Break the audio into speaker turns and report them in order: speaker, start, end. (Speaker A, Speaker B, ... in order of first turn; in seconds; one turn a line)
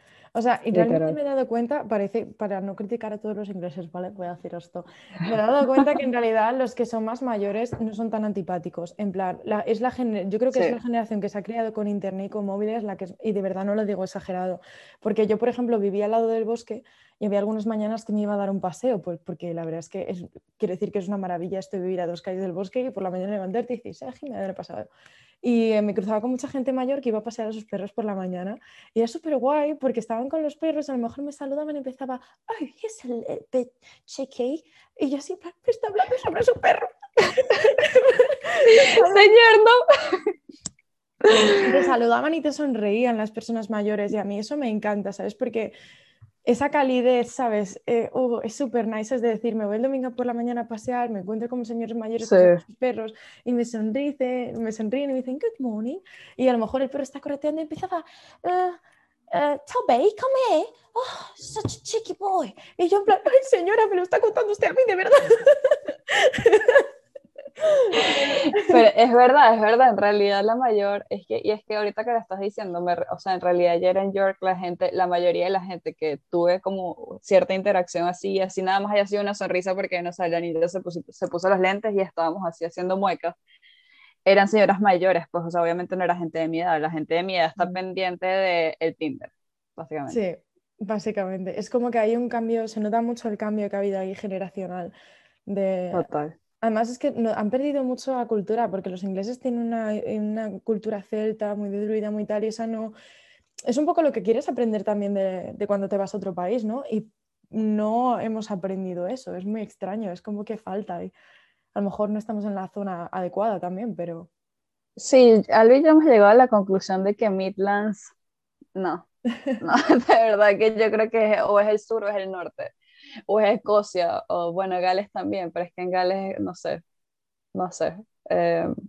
Speaker A: 0.3-24.9
Speaker B: 0.7-1.2
Speaker A: 25.4-39.3
Speaker B: 38.7-40.3
Speaker B: 41.2-41.9
Speaker A: 41.6-45.7
Speaker A: 46.5-58.8
Speaker B: 52.2-52.6
Speaker A: 59.3-66.9
Speaker A: 67.6-68.8
Speaker B: 68.1-83.4
Speaker B: 84.2-90.2
Speaker A: 90.1-94.9
Speaker A: 95.5-96.0
Speaker B: 95.9-96.3
Speaker A: 96.6-102.9
Speaker A: 103.7-111.1
Speaker A: 111.7-114.3
Speaker B: 115.0-118.1
Speaker B: 118.7-119.1
Speaker B: 119.6-122.7
Speaker B: 123.3-126.8
Speaker B: 127.5-128.7